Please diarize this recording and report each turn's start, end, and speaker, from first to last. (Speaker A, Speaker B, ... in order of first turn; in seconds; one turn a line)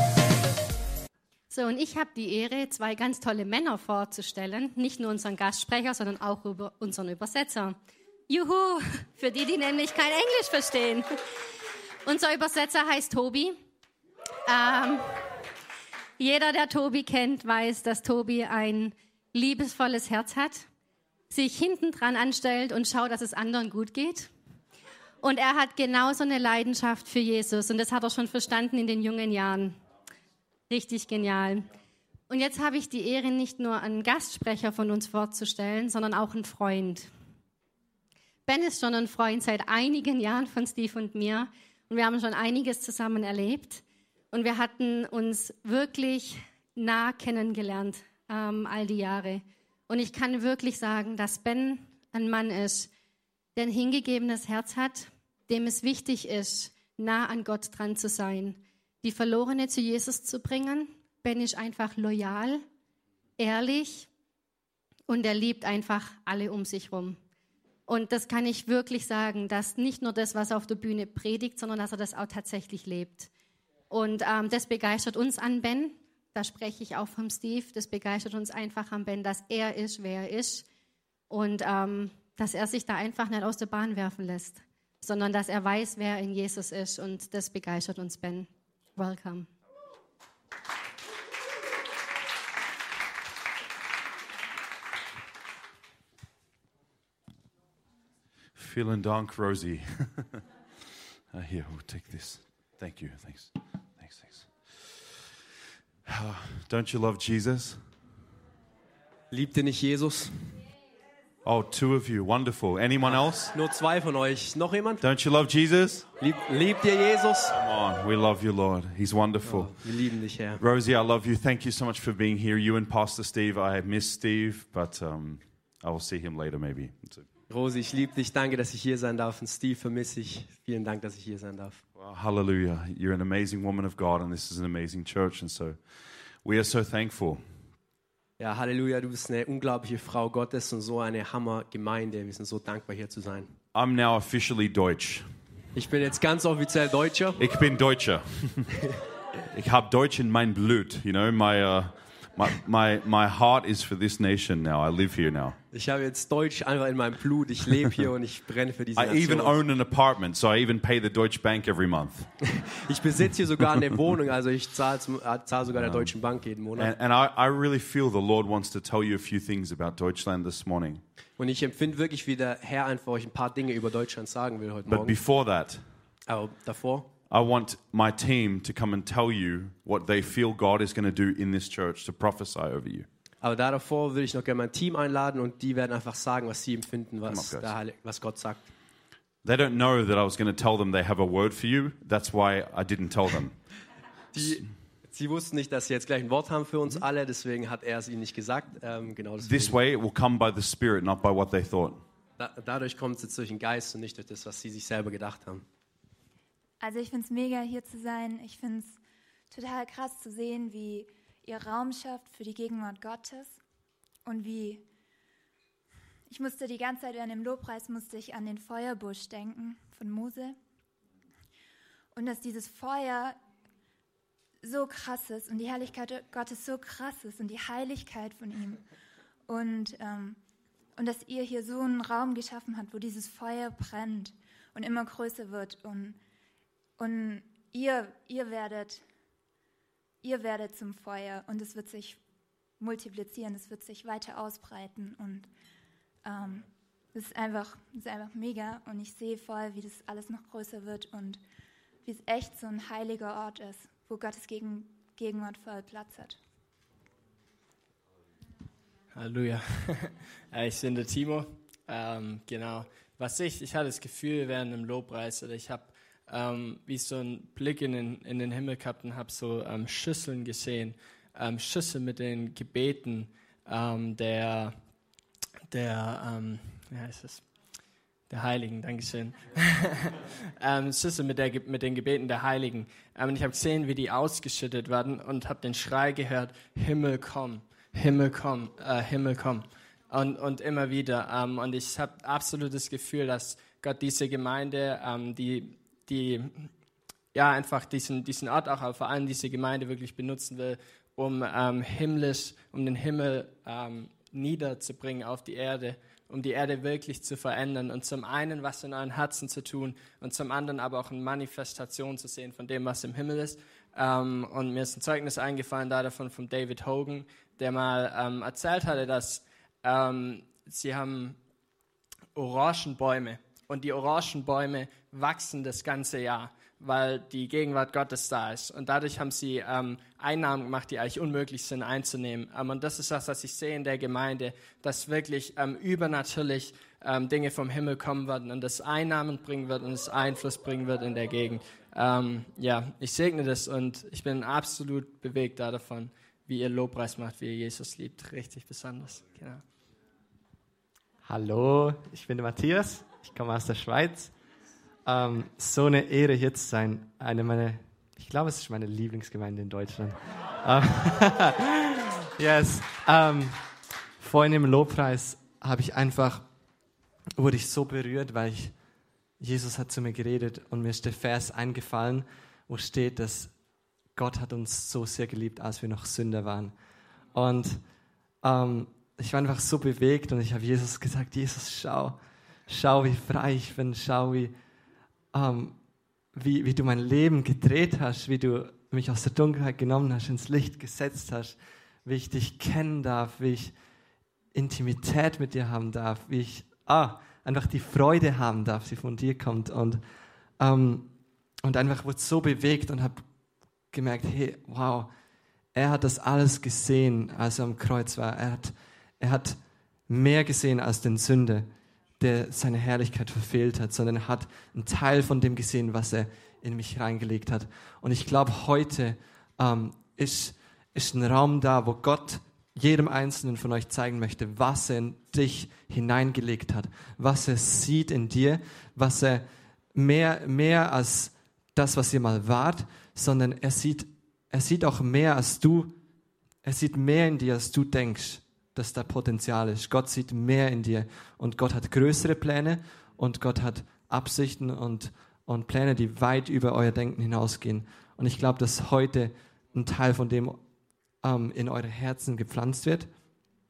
Speaker A: 1.5-7.8
Speaker A: 8.3-11.1
Speaker A: 12.0-13.6
Speaker A: 14.5-15.1
Speaker A: 16.2-20.6
Speaker A: 21.3-24.3
Speaker A: 25.2-29.8
Speaker A: 30.7-31.7
Speaker A: 32.3-37.1
Speaker A: 38.5-52.9
Speaker A: 53.5-62.6
Speaker A: 63.4-64.1
Speaker A: 65.1-67.2
Speaker A: 67.9-73.3
Speaker A: 73.9-80.6
Speaker A: 81.3-89.5
Speaker B: 98.5-100.4
Speaker B: 101.3-104.5
Speaker B: 106.0-107.8
Speaker C: 109.3-110.5
Speaker B: 111.4-113.5
Speaker C: 113.0-115.0
Speaker B: 115.0-116.0
Speaker C: 116.2-117.6
Speaker B: 117.5-119.8
Speaker C: 119.4-120.6
Speaker B: 120.6-127.2
Speaker C: 127.5-131.8
Speaker B: 131.9-135.8
Speaker B: 136.4-137.4
Speaker C: 138.4-143.5
Speaker B: 143.7-145.3
Speaker C: 145.7-147.4
Speaker B: 147.4-148.8
Speaker B: 149.5-155.6
Speaker C: 155.7-159.6
Speaker B: 158.9-162.3
Speaker C: 162.4-166.9
Speaker B: 165.8-166.1
Speaker B: 166.8-171.0
Speaker C: 171.4-175.2
Speaker B: 174.9-175.8
Speaker C: 176.3-177.1
Speaker B: 177.3-183.1
Speaker C: 183.4-188.7
Speaker B: 187.3-187.7
Speaker B: 189.4-193.6
Speaker C: 194.3-199.8
Speaker B: 199.4-202.0
Speaker C: 202.4-205.6
Speaker D: 206.8-209.0
Speaker D: 209.5-213.6
Speaker D: 214.2-214.8
Speaker D: 216.3-220.6
Speaker D: 222.1-223.4
Speaker D: 224.6-228.8
Speaker D: 229.5-230.4
Speaker D: 230.9-236.2
Speaker D: 237.0-239.0
Speaker D: 240.2-242.2
Speaker D: 242.8-245.5
Speaker D: 246.2-251.4
Speaker D: 252.0-256.4
Speaker E: 259.1-274.8
Speaker E: 275.7-277.4
Speaker E: 278.3-296.7
Speaker E: 297.3-321.4
Speaker E: 322.3-349.6
Speaker F: 351.2-354.3
Speaker F: 355.1-363.6
Speaker F: 364.2-366.4
Speaker F: 367.4-368.7
Speaker F: 369.4-373.5
Speaker F: 374.1-376.7
Speaker F: 377.3-377.8
Speaker F: 378.4-384.5
Speaker F: 385.3-385.8
Speaker F: 386.3-393.7
Speaker F: 394.5-400.0
Speaker F: 400.6-401.1
Speaker F: 401.6-403.2
Speaker F: 403.9-405.1
Speaker F: 405.7-409.6
Speaker F: 410.1-411.7
Speaker F: 412.2-429.4
Speaker F: 429.9-435.9
Speaker F: 436.6-450.6
Speaker F: 451.2-453.1